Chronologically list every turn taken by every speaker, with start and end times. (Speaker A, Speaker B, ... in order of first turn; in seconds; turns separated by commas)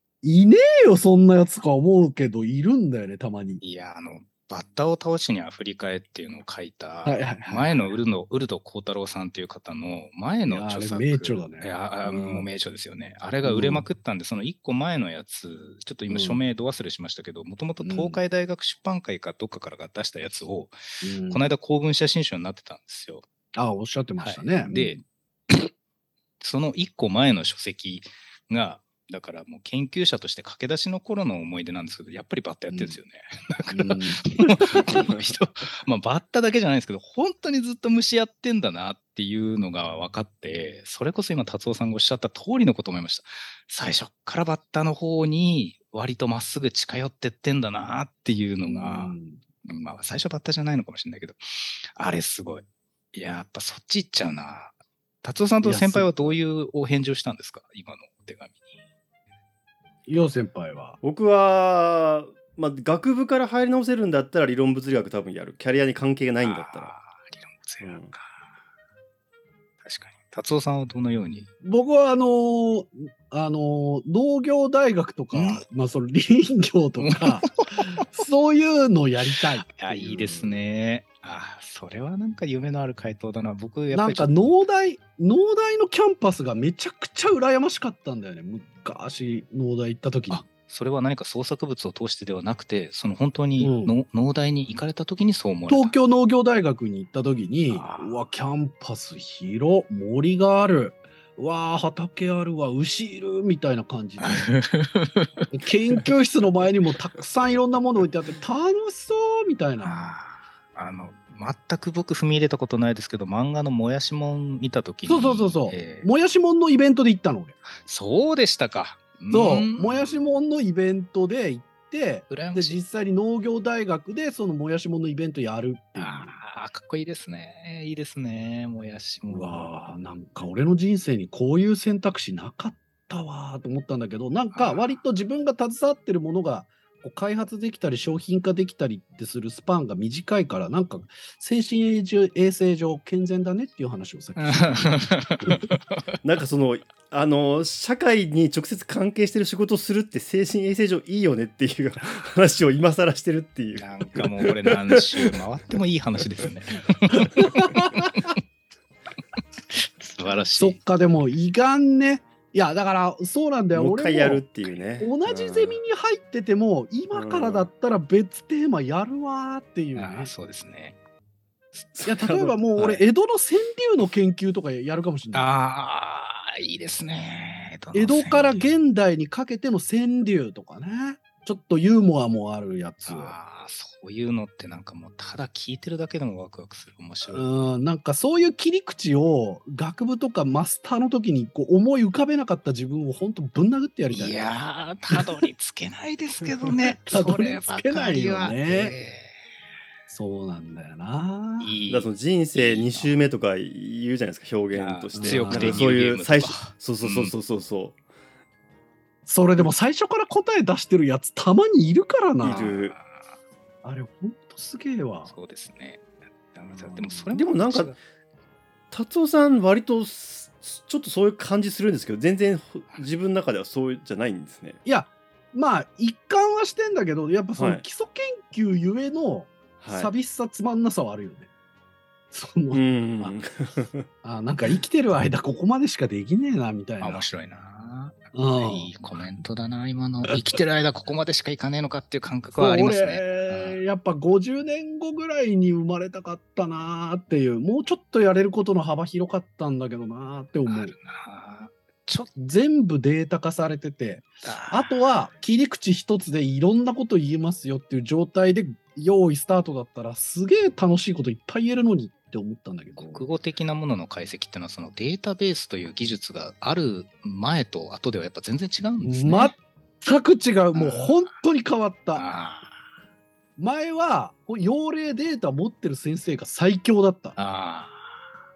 Speaker A: 0.2-3.6, Speaker B: 3.6-20.8, Speaker A: 7.0-7.9, Speaker A: 10.5-12.5, Speaker A: 13.4-13.9, Speaker A: 16.1-16.4, Speaker A: 17.8-18.2, Speaker A: 21.0-21.4, Speaker B: 21.3-23.2, Speaker A: 23.6-25.0, Speaker B: 24.2-25.7, Speaker B: 26.4-49.1, Speaker A: 32.7-33.0, Speaker A: 33.7-35.1, Speaker A: 48.7-49.4, Speaker B: 49.6-58.7, Speaker A: 55.6-56.4, Speaker A: 60.1-61.0, Speaker C: 61.0-66.9, Speaker B: 66.4-68.3, Speaker C: 67.8-68.1, Speaker B: 69.8-71.5, Speaker A: 71.6-80.6, Speaker B: 75.3-75.6, Speaker B: 77.0-78.1, Speaker B: 79.8-84.6, Speaker A: 83.9-90.4, Speaker B: 90.3-95.9, Speaker A: 93.6-93.9, Speaker A: 95.7-104.5, Speaker B: 97.7-98.1, Speaker B: 104.2-106.0, Speaker A: 105.5-110.0, Speaker B: 109.8-116.1, Speaker A: 115.1-117.6, Speaker B: 117.8-120.2, Speaker A: 119.3-126.3, Speaker B: 122.3-122.8, Speaker B: 126.0-129.7, Speaker A: 129.3-145.6, Speaker B: 134.5-135.0, Speaker B: 144.4-146.2, Speaker C: 146.2-155.1, Speaker B: 153.8-158.4, Speaker A: 157.4-158.1, Speaker B: 159.7-160.8, Speaker A: 160.6-170.3, Speaker C: 163.7-165.8, Speaker C: 167.1-167.7, Speaker B: 170.0-171.0, Speaker C: 171.9-173.0, Speaker A: 172.1-175.5, Speaker B: 175.3-178.7, Speaker A: 177.9-183.3, Speaker B: 183.1-187.5, Speaker A: 187.3-194.5, Speaker B: 194.1-199.4, Speaker A: 195.1-195.5, Speaker A: 197.1-198.9, Speaker A: 200.1-201.7, Speaker B: 201.6-203.2, Speaker C: 201.9-208.0, Speaker B: 204.7-207.3, Speaker A: 205.2-205.9, Speaker A: 209.3-212.8, Speaker C: 212.4-213.0, Speaker B: 212.5-213.2, Speaker A: 213.8-215.3, Speaker B: 215.3-218.0, Speaker A: 216.7-217.3, Speaker C: 217.3-217.9, Speaker C: 218.9-224.8, Speaker A: 224.8-231.5, Speaker C: 227.6-227.8, Speaker C: 229.8-230.1, Speaker A: 232.3-233.4, Speaker C: 232.7-234.1, Speaker A: 234.2-237.2, Speaker B: 237.0-243.8, Speaker A: 238.3-238.9, Speaker A: 242.5-250.9, Speaker B: 250.7-252.3, Speaker A: 252.4-263.3, Speaker B: 254.4-255.1, Speaker B: 263.0-269.5, Speaker A: 269.0-272.2, Speaker B: 270.7-271.3, Speaker B: 272.1-272.8, Speaker A: 273.6-277.4, Speaker B: 277.4-278.2